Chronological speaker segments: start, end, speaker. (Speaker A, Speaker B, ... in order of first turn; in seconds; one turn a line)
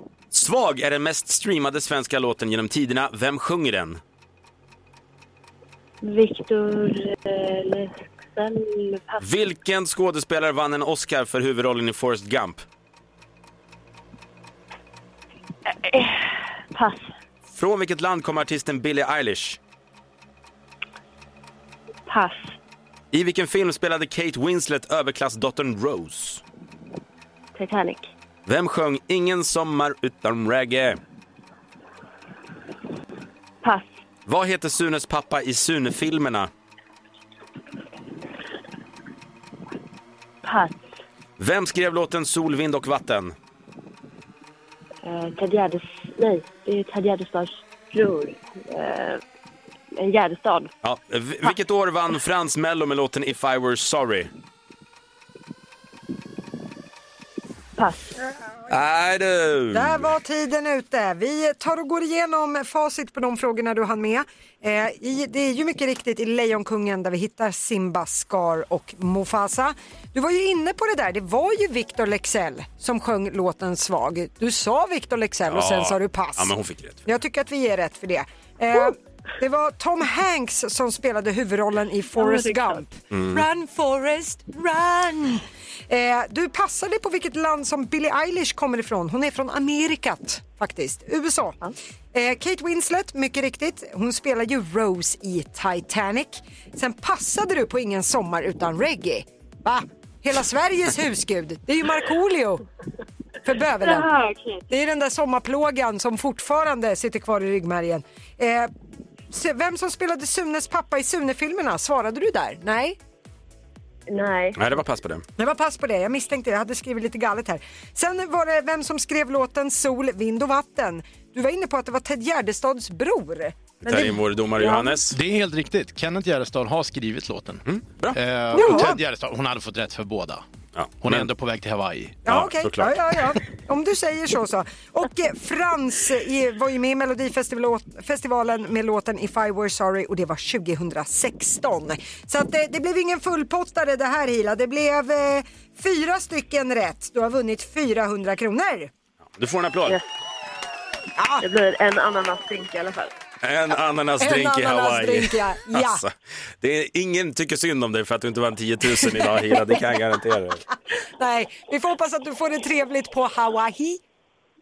Speaker A: 0.3-4.0
Speaker B: 6.0-9.3
Speaker A: 9.2-12.6
Speaker B: 15.8-17.1
Speaker A: 17.5-19.6
Speaker B: 22.1-22.5
Speaker A: 23.1-26.4
Speaker B: 27.6-28.1
Speaker A: 28.4-31.0
Speaker B: 33.6-33.9
Speaker A: 34.3-36.5
Speaker B: 40.4-40.9
Speaker A: 41.4-43.3
Speaker B: 45.0-49.2
Speaker B: 49.9-50.7
Speaker A: 50.8-54.3
Speaker B: 57.8-58.1
Speaker A: 58.7-60.1
Speaker C: 59.7-76.5
Speaker A: 75.4-77.0
Speaker C: 77.0-91.6
Speaker B: 82.2-82.8
Speaker A: 83.1-83.4
Speaker C: 92.1-102.6
Speaker C: 103.4-104.1
Speaker B: 103.8-104.6
Speaker C: 104.7-108.7
Speaker C: 109.3-113.0
Speaker B: 114.1-114.6
Speaker A: 114.5-115.2
Speaker C: 115.4-124.7
Speaker A: 123.8-125.2
Speaker D: 125.1-127.6
Speaker A: 127.7-128.2
Speaker D: 128.1-130.4
Speaker C: 128.5-129.0
Speaker A: 130.7-131.3
Speaker D: 131.0-132.2
Speaker A: 132.2-132.9
Speaker C: 132.2-148.9
Speaker A: 149.4-150.0
Speaker C: 151.2-151.4
Speaker B: 151.4-153.1
Speaker A: 153.4-160.6
Speaker C: 154.2-156.0
Speaker C: 161.2-164.0